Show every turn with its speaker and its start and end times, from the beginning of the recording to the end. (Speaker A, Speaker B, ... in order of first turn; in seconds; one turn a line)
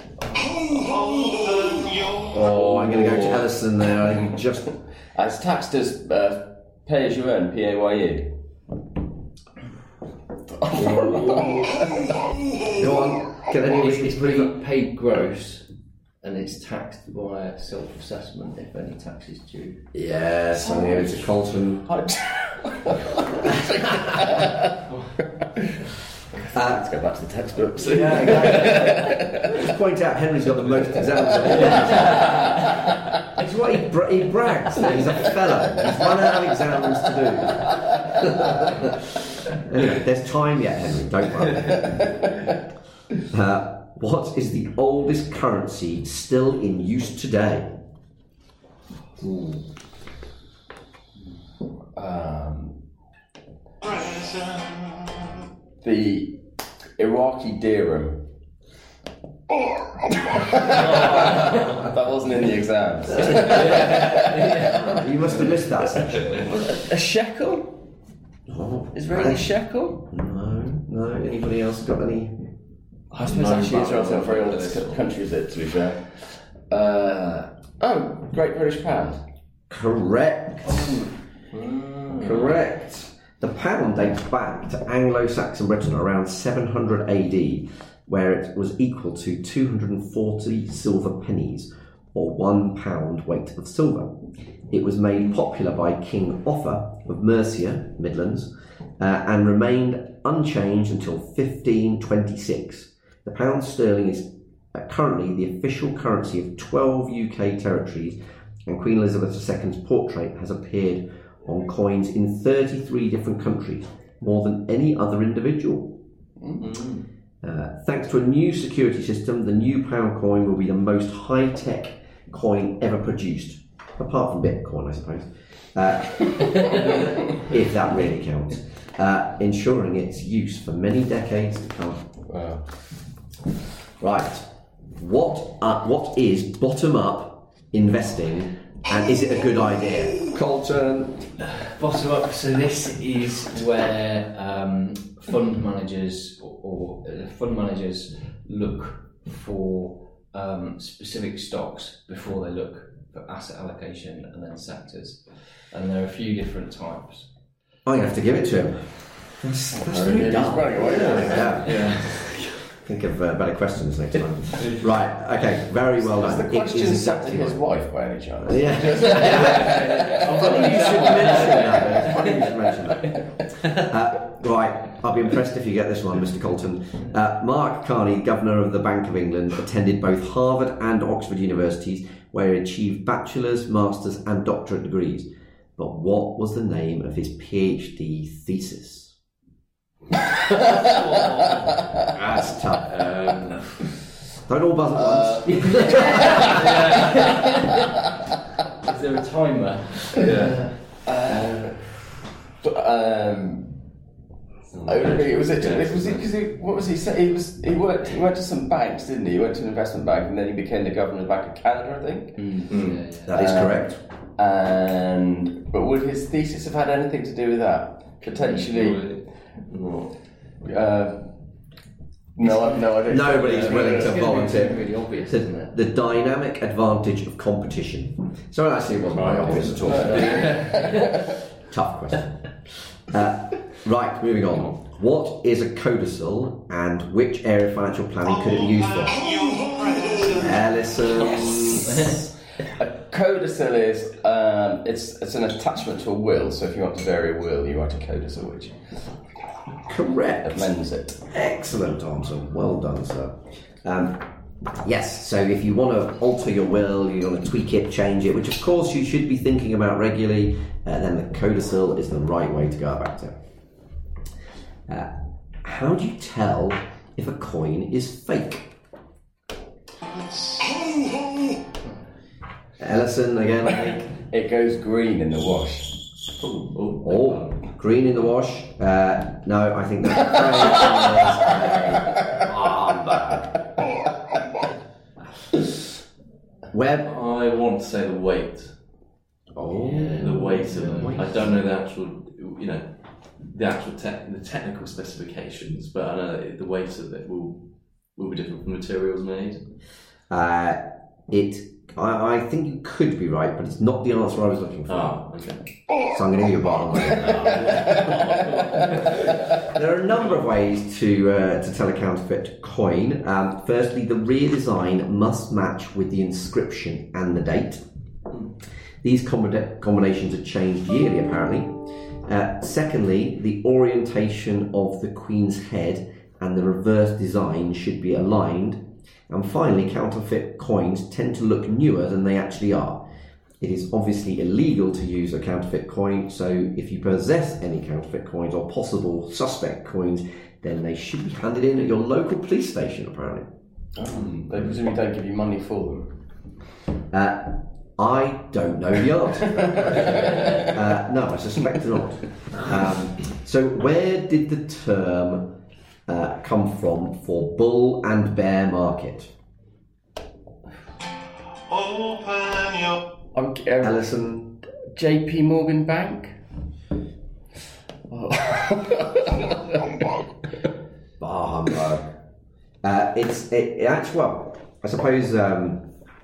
Speaker A: 0.5-0.8
Speaker B: 0.7-2.4
Speaker C: 2.3-4.7
Speaker A: 2.4-3.5
Speaker A: 5.1-8.3
Speaker A: 10.5-12.3
Speaker C: 10.7-11.8
Speaker C: 12.7-14.5
Speaker D: 13.6-15.7
Speaker D: 16.2-19.8
Speaker C: 19.9-21.9
Speaker A: 20.5-24.6
Speaker C: 23.6-24.1
Speaker E: 24.9-25.2
Speaker A: 25.5-29.7
Speaker C: 26.5-26.9
Speaker E: 27.8-29.2
Speaker C: 27.9-32.5
Speaker A: 31.2-32.6
Speaker E: 31.4-32.3
Speaker C: 33.3-42.0
Speaker A: 41.7-42.1
Speaker C: 43.3-47.7
Speaker E: 49.3-49.6
Speaker A: 51.9-52.8
Speaker B: 53.8-55.4
Speaker A: 55.8-56.4
Speaker A: 57.0-58.2
Speaker A: 60.3-67.8
Speaker E: 63.3-64.2
Speaker C: 63.6-64.0
Speaker C: 64.6-66.4
Speaker C: 68.5-72.5
Speaker A: 68.9-70.0
Speaker E: 73.1-75.1
Speaker A: 73.1-79.2
Speaker C: 79.7-81.0
Speaker E: 80.7-82.5
Speaker C: 82.2-94.2
Speaker C: 94.7-116.0
Speaker A: 116.4-116.7
Speaker E: 116.6-117.0
Speaker C: 117.4-132.1
Speaker A: 132.3-132.6
Speaker C: 134.0-141.2
Speaker D: 141.5-157.3
Speaker C: 157.8-167.6
Speaker A: 159.8-161.7
Speaker E: 160.8-162.7
Speaker E: 164.6-164.9
Speaker A: 166.0-170.5
Speaker C: 168.4-189.1
Speaker D: 169.2-172.5
Speaker E: 169.4-169.7
Speaker E: 170.5-171.3
Speaker A: 171.3-171.7
Speaker E: 190.6-192.1
Speaker C: 192.1-193.1
Speaker E: 192.8-193.8
Speaker C: 194.5-196.8
Speaker A: 194.9-196.3
Speaker D: 195.7-196.8
Speaker E: 196.4-197.2
Speaker D: 198.8-200.8
Speaker E: 200.1-201.4
Speaker A: 201.0-203.7
Speaker E: 204.7-206.3
Speaker A: 204.8-212.6
Speaker D: 212.4-213.4
Speaker E: 212.7-213.0
Speaker C: 213.2-214.0
Speaker A: 213.3-219.2
Speaker E: 218.2-220.1
Speaker A: 220.6-221.3
Speaker A: 222.3-224.1
Speaker D: 222.4-225.7
Speaker C: 223.1-231.0
Speaker E: 229.1-230.9
Speaker A: 229.8-231.3
Speaker D: 230.4-230.7
Speaker C: 231.7-239.2
Speaker B: 238.3-240.7
Speaker C: 240.3-242.1
Speaker A: 242.0-249.2
Speaker C: 249.8-254.2
Speaker A: 250.4-251.2
Speaker C: 254.8-263.4
Speaker C: 264.9-268.7
Speaker B: 270.1-271.3
Speaker C: 272.8-274.1
Speaker A: 273.9-276.0
Speaker E: 276.3-277.7
Speaker C: 277.0-283.5
Speaker A: 280.4-281.5
Speaker C: 286.7-287.1
Speaker E: 287.0-288.7
Speaker C: 289.5-291.5
Speaker D: 289.7-291.4
Speaker E: 290.1-299.7
Speaker C: 300.3-305.2
Speaker E: 304.9-305.7
Speaker C: 306.1-308.2
Speaker E: 307.1-309.6
Speaker C: 309.6-317.8
Speaker C: 319.0-333.0
Speaker C: 333.6-343.5
Speaker A: 343.9-346.5
Speaker C: 347.1-359.3
Speaker B: 361.6-363.1
Speaker A: 363.3-364.1
Speaker C: 363.8-364.6
Speaker A: 364.9-366.4
Speaker A: 368.1-370.0
Speaker C: 371.2-372.1
Speaker C: 372.8-375.9